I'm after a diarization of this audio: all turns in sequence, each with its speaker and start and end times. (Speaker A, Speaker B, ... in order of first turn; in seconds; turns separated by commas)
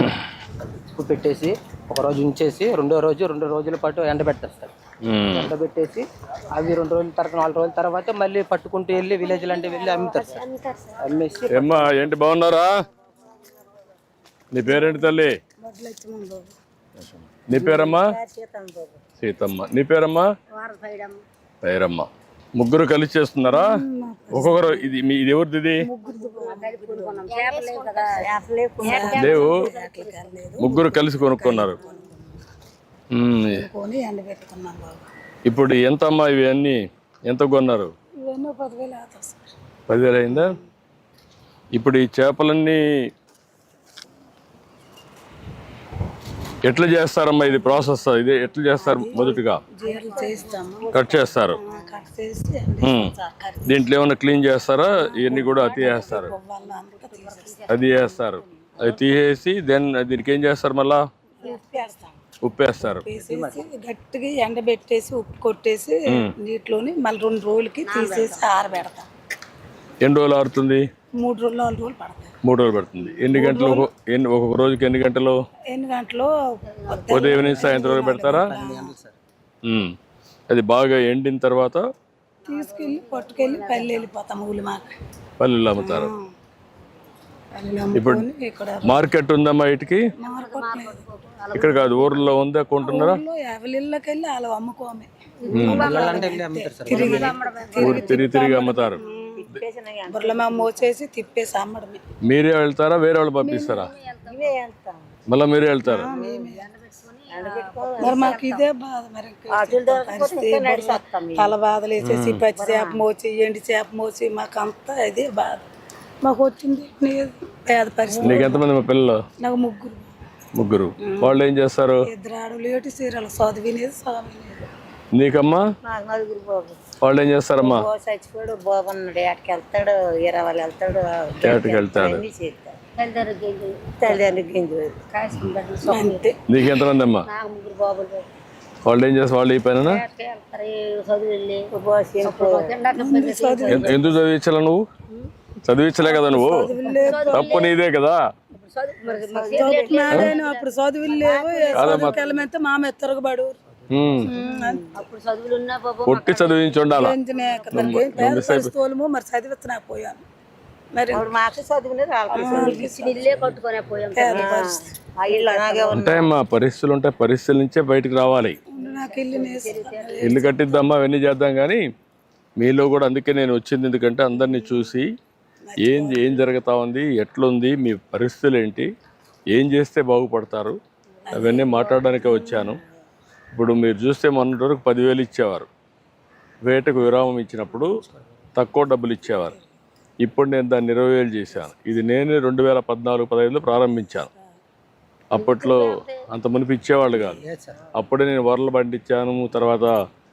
Speaker A: 0.7-4.7, Speaker B: 5.0-5.5, Speaker A: 5.3-10.4, Speaker C: 9.1-11.5, Speaker A: 11.0-12.1, Speaker B: 11.5-12.8, Speaker B: 14.5-15.4, Speaker D: 15.6-16.5, Speaker B: 17.0-18.1, Speaker E: 17.5-19.0, Speaker B: 19.2-20.3, Speaker E: 20.6-21.1, Speaker B: 21.6-23.8, Speaker D: 23.5-24.9, Speaker B: 24.3-25.9, Speaker D: 25.8-27.2, Speaker E: 26.4-29.9, Speaker C: 26.4-30.4, Speaker D: 28.8-32.2, Speaker B: 29.2-29.7, Speaker B: 30.6-31.8, Speaker B: 33.1-33.7, Speaker D: 33.5-35.0, Speaker B: 35.5-37.9, Speaker D: 38.3-39.5, Speaker B: 39.9-40.5, Speaker D: 40.3-40.6, Speaker B: 41.8-42.8, Speaker B: 46.6-49.6, Speaker D: 48.8-51.0, Speaker E: 49.9-50.6, Speaker C: 49.9-51.6, Speaker B: 50.9-51.6, Speaker D: 51.5-53.8, Speaker B: 52.8-56.3, Speaker D: 55.1-57.7, Speaker E: 55.9-56.3, Speaker B: 57.7-61.0, Speaker D: 61.4-62.2, Speaker B: 62.4-63.0, Speaker D: 62.8-69.1, Speaker A: 63.2-63.6, Speaker B: 66.1-66.3, Speaker C: 67.8-68.5, Speaker B: 70.0-70.8, Speaker D: 71.2-72.3, Speaker B: 72.4-75.4, Speaker D: 73.2-73.9, Speaker D: 75.7-76.3, Speaker D: 76.9-78.9, Speaker C: 76.9-77.2, Speaker B: 77.1-78.5, Speaker A: 77.3-77.7, Speaker A: 78.4-79.2, Speaker B: 79.7-80.0, Speaker B: 80.5-81.8, Speaker D: 82.5-84.9, Speaker C: 82.5-84.0, Speaker B: 85.4-86.1, Speaker D: 85.8-86.2, Speaker D: 87.5-89.0, Speaker B: 88.0-88.3, Speaker B: 88.8-90.1, Speaker D: 90.2-91.1, Speaker C: 90.2-92.4, Speaker B: 91.5-93.2, Speaker D: 92.8-99.5, Speaker C: 95.5-96.3, Speaker B: 95.5-95.9, Speaker E: 95.5-96.3, Speaker A: 95.7-97.3, Speaker E: 96.9-100.9, Speaker B: 97.8-99.6, Speaker D: 100.1-102.0, Speaker B: 102.2-103.9, Speaker C: 103.5-104.5, Speaker E: 104.2-105.1, Speaker B: 105.3-106.1, Speaker D: 105.8-106.7, Speaker E: 105.9-106.7, Speaker C: 106.4-108.3, Speaker E: 107.3-108.7, Speaker D: 108.0-115.7, Speaker E: 109.5-111.5, Speaker B: 112.0-112.4, Speaker E: 112.5-113.0, Speaker D: 116.2-118.7, Speaker B: 118.2-119.2, Speaker D: 119.4-120.1, Speaker B: 120.5-122.1, Speaker D: 121.0-121.4, Speaker D: 122.0-124.7, Speaker B: 125.2-125.6, Speaker E: 125.8-126.8, Speaker B: 127.0-127.9, Speaker E: 127.6-132.8, Speaker B: 131.4-132.2, Speaker C: 133.0-134.2, Speaker E: 134.0-134.9, Speaker C: 135.1-138.2, Speaker D: 135.8-136.4, Speaker B: 136.5-137.3, Speaker B: 138.9-140.0, Speaker C: 139.8-141.7, Speaker E: 141.7-143.9, Speaker C: 142.2-144.2, Speaker D: 142.9-144.0, Speaker B: 143.7-144.8, Speaker B: 145.7-146.7, Speaker D: 146.0-147.6, Speaker C: 146.8-147.8, Speaker B: 147.3-148.2, Speaker C: 148.6-152.5, Speaker E: 149.1-150.4, Speaker D: 149.3-153.6, Speaker B: 151.7-152.2, Speaker B: 153.9-154.3, Speaker D: 154.2-154.9, Speaker E: 154.4-154.8, Speaker C: 154.9-158.6, Speaker B: 156.1-157.2, Speaker D: 156.9-160.2, Speaker B: 157.7-158.7, Speaker D: 160.9-161.3, Speaker E: 161.1-163.3, Speaker D: 162.3-163.4, Speaker C: 162.3-164.7, Speaker D: 164.2-164.9, Speaker E: 164.3-166.2, Speaker C: 165.3-166.0, Speaker B: 165.9-168.6, Speaker D: 168.7-170.6, Speaker E: 168.8-170.8, Speaker B: 170.2-171.8, Speaker B: 172.6-175.1, Speaker D: 174.4-174.9, Speaker D: 175.6-176.4, Speaker B: 175.8-178.9, Speaker B: 179.5-180.8, Speaker D: 181.3-182.8, Speaker B: 181.3-182.8, Speaker B: 183.5-185.7, Speaker B: 186.7-188.0, Speaker B: 188.6-189.6, Speaker B: 190.2-194.3, Speaker B: 195.3-197.4, Speaker C: 195.3-196.2, Speaker A: 197.2-197.8, Speaker B: 197.9-199.9